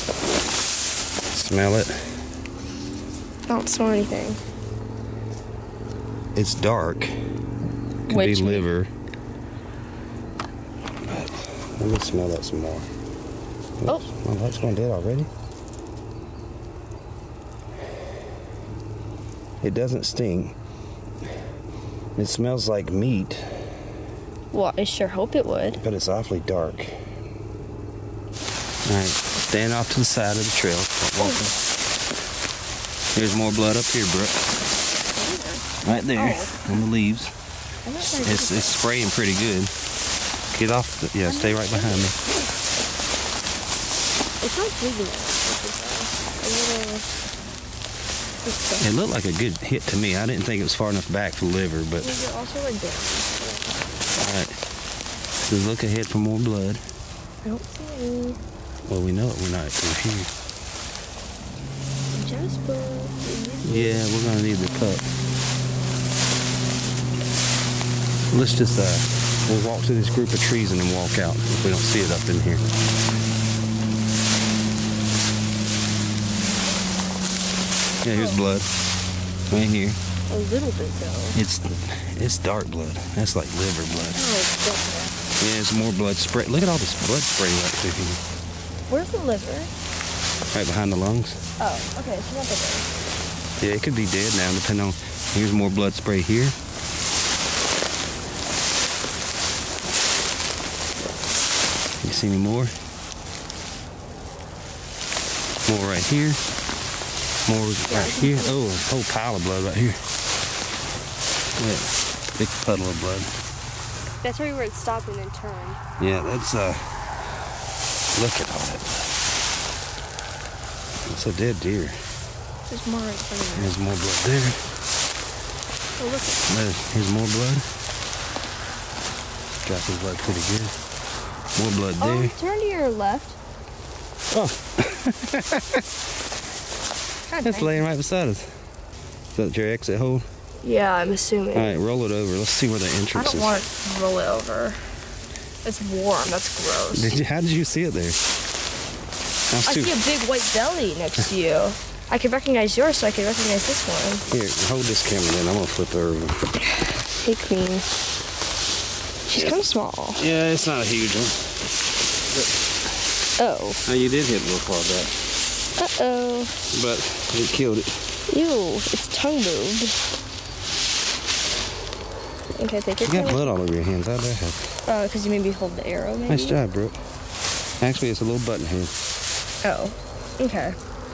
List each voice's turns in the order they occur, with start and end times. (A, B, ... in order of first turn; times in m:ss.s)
0:01.3-0:02.1 A
0:03.5-0:04.4 B
0:06.4-0:07.2 A
0:08.1-0:08.9 A
0:08.1-0:08.7 B
0:11.0-0:12.9 A
0:13.8-0:15.3 A
0:19.6-0:20.6 A
0:22.2-0:23.6 A
0:24.5-0:25.8 B
0:25.8-0:26.9 A
0:28.9-0:31.6 A
0:33.2-0:34.4 A
0:35.2-0:36.8 B
0:35.8-0:37.3 A
0:37.9-0:38.8 B
0:38.0-0:39.7 A
0:40.5-0:42.2 A
0:41.2-0:42.2 B
0:44.4-0:47.1 B
0:48.4-0:48.9 B
0:48.8-0:52.2 A
0:52.0-0:53.7 B
0:54.2-0:54.6 A
0:55.4-0:56.8 A
0:57.4-0:58.4 B
0:58.9-1:00.3 A
1:02.1-1:04.0 B
1:03.6-1:05.1 A
1:08.3-1:12.7 A
1:18.0-1:18.7 A
1:18.1-1:18.4 B
1:19.5-1:20.0 A
1:20.3-1:21.4 B
1:21.3-1:24.3 A
1:24.2-1:25.2 B
1:25.4-1:28.2 A
1:28.9-1:29.7 B
1:30.5-1:31.4 A
1:31.6-1:32.9 B
1:33.6-1:36.6 A
1:42.0-1:42.7 A
1:45.7-1:46.4 A
1:47.5-1:50.0 A
1:47.9-1:48.6 B
1:51.6-1:53.3 A
1:54.2-1:55.8 B
1:56.0-1:57.0 A
1:58.1-1:58.9 A
2:01.1-2:02.0 A
2:02.7-2:03.7 B
2:03.6-2:04.6 A
2:06.0-2:06.5 B
2:06.5-2:07.6 A
2:09.6-2:10.7 A
2:11.6-2:12.3 A
2:12.0-2:13.4 B
2:14.3-2:15.8 A
2:17.3-2:17.9 B
2:17.4-2:18.5 A
2:19.3-2:20.2 A
2:20.6-2:21.8 B
2:21.5-2:23.6 A
2:23.2-2:24.8 B
2:25.6-2:27.2 B
2:26.9-2:28.2 A
2:29.5-2:29.9 A
2:29.6-2:34.2 B
2:34.3-2:36.5 A
2:37.2-2:37.9 B
2:39.3-2:40.3 B
2:40.2-2:41.6 A
2:43.4-2:43.8 B
2:43.8-2:45.2 A
2:45.8-2:46.6 B
2:46.7-2:48.2 A
2:48.3-2:50.0 B
2:52.6-2:53.5 B
2:53.0-2:54.7 A
2:54.9-2:56.6 B
2:56.3-2:57.0 A
2:57.8-2:58.9 A
2:59.6-3:00.8 B